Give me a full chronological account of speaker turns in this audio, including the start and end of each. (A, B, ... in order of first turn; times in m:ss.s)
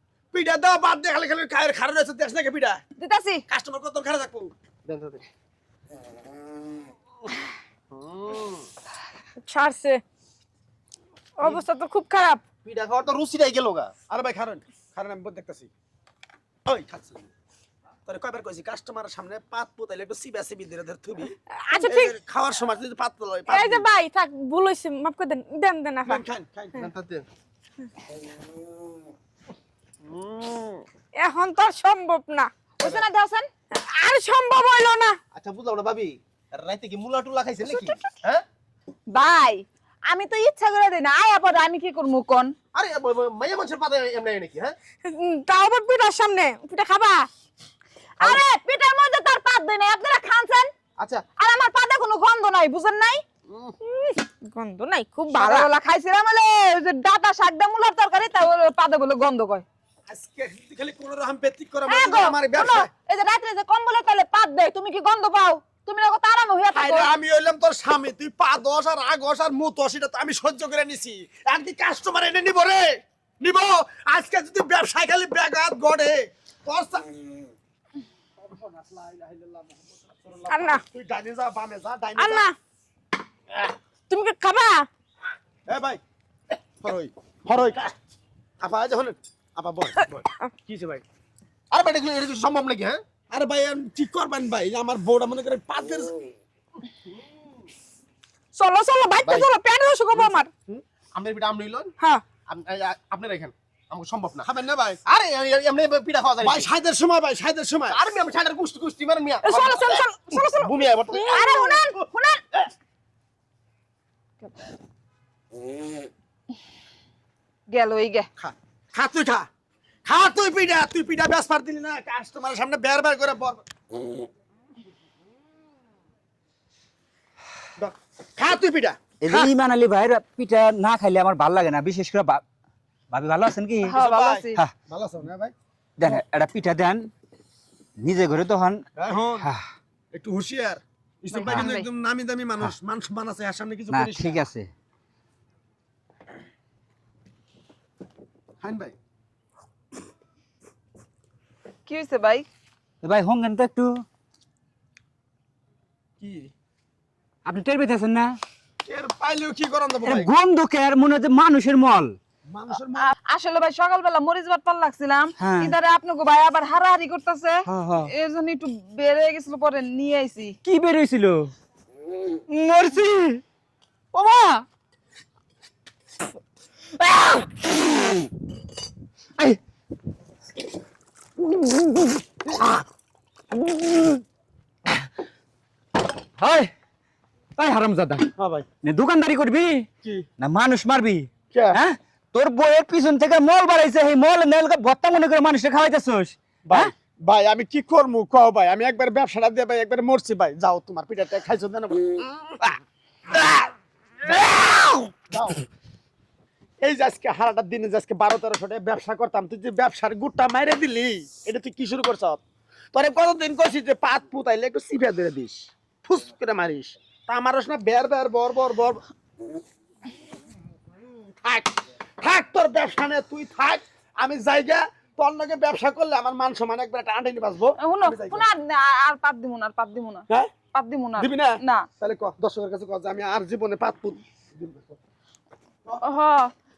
0:00.3-0:02.8 A
0:03.0-0:03.4 B
0:03.5-0:04.5 A
0:04.8-0:05.2 C
0:07.9-0:08.7 C
0:09.4-0:10.0 D
0:11.4-0:12.4 D
0:12.6-0:13.9 C
0:14.1-0:15.7 A
0:16.6-0:17.3 A
0:18.0-0:23.8 A
0:21.6-0:22.1 D
0:23.5-0:26.2 D
0:26.0-0:26.9 A
0:26.8-0:27.3 C
0:30.1-0:30.8 C
0:31.1-0:32.5 D
0:32.8-0:33.5 B
0:33.8-0:35.2 D
0:35.3-0:38.4 C
0:39.1-0:42.5 B
0:42.7-0:44.8 C
0:45.0-0:47.3 D
0:48.2-0:50.7 B
0:51.0-0:51.2 C
0:51.4-0:53.2 B
0:53.5-0:53.8 C
0:53.8-0:55.7 D
0:55.3-0:59.6 B
1:00.1-1:02.9 A
1:01.9-1:07.1 B
1:06.7-1:17.1 A
1:18.4-1:22.4 A
1:20.5-1:20.8 D
1:22.2-1:22.5 D
1:24.1-1:24.9 D
1:25.7-1:26.0 A
1:26.8-1:27.9 A
1:28.6-1:31.0 A
1:31.7-1:33.0 C
1:33.3-1:36.1 A
1:38.5-1:40.5 D
1:39.2-1:39.5 C
1:41.1-1:41.9 C
1:42.5-1:44.5 C
1:44.4-1:45.0 A
1:45.0-1:46.7 C
1:46.4-1:48.0 A
1:47.9-1:51.6 C
1:49.4-1:51.6 D
1:51.2-1:52.4 B
1:57.7-1:58.3 B
1:58.4-1:59.4 A
2:00.0-2:03.6 A
2:07.8-2:09.5 A
2:09.2-2:12.4 E
2:13.1-2:13.9 E
2:13.8-2:14.6 B
2:13.9-2:15.5 A
2:16.0-2:17.1 E
2:18.0-2:18.8 E
2:19.0-2:19.5 A
2:20.1-2:24.4 A
2:21.3-2:21.9 B
2:23.9-2:24.7 E
2:28.6-2:28.9 A
2:31.8-2:32.5 B
2:33.0-2:33.9 E
2:36.2-2:36.5 A
2:37.4-2:38.3 E
2:38.8-2:40.3 A
2:40.0-2:42.2 E
2:42.5-2:43.1 A
2:43.0-2:50.6 B
2:45.4-2:45.7 E
2:47.7-2:48.1 E
2:50.6-2:51.5 E
2:52.5-2:53.4 E
2:54.1-2:54.6 B
3:03.8-3:04.2 E
3:06.4-3:06.7 E
3:07.6-3:08.3 E
3:08.4-3:08.6 A
3:08.8-3:09.9 E
3:10.4-3:16.9 E
3:11.5-3:11.8 A
3:16.6-3:22.8 A
3:23.3-3:23.7 A
3:24.2-3:25.6 A
3:26.8-3:32.4 A
3:32.9-3:39.0 A
3:41.4-3:48.4 A
3:47.8-3:51.9 B
3:51.2-3:55.0 A
3:56.0-3:56.5 B